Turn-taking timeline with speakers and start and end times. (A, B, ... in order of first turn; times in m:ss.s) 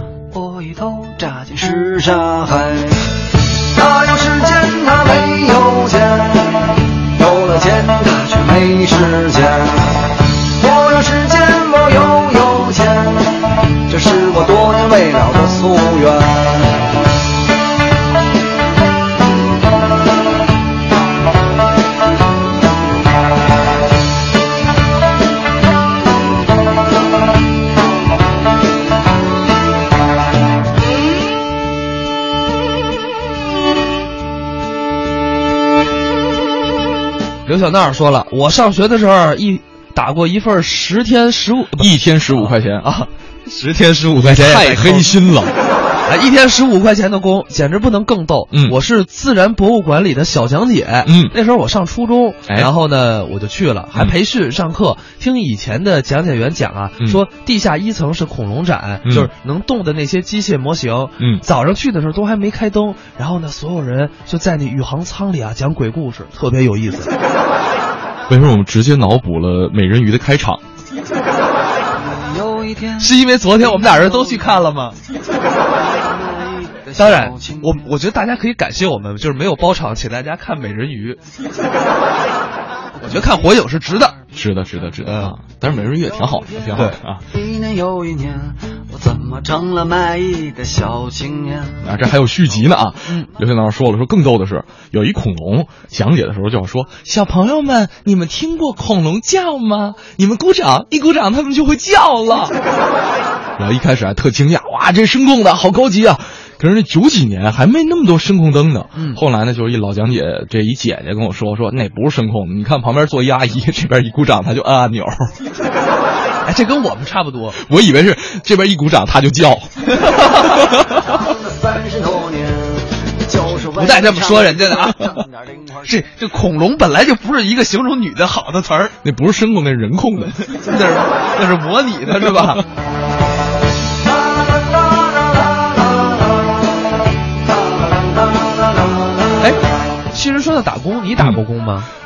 0:00.3-0:16.8 A
0:37.4-0:45.1 B
0:41.8-0:43.0 C
0:44.2-0:45.5 C
0:46.0-1:07.1 B
0:51.0-0:51.3 C
1:08.3-1:10.6 C
1:11.9-1:14.6 A
1:13.0-1:14.9 B
1:15.6-1:17.8 A
1:17.0-1:21.2 B
1:23.0-1:24.2 B
1:24.3-1:27.2 C
1:25.0-1:25.3 B
1:26.5-1:31.8 A
1:31.8-1:42.5 C
1:43.6-1:55.3 C
1:56.4-1:57.6 B
1:57.6-2:01.0 C
2:00.0-2:00.3 B
2:01.0-2:06.0 A
2:03.7-2:05.1 B
2:05.8-2:08.9 B
2:09.0-2:10.4 C
2:10.4-2:12.6 B
2:14.0-2:19.5 A
2:20.1-2:21.9 B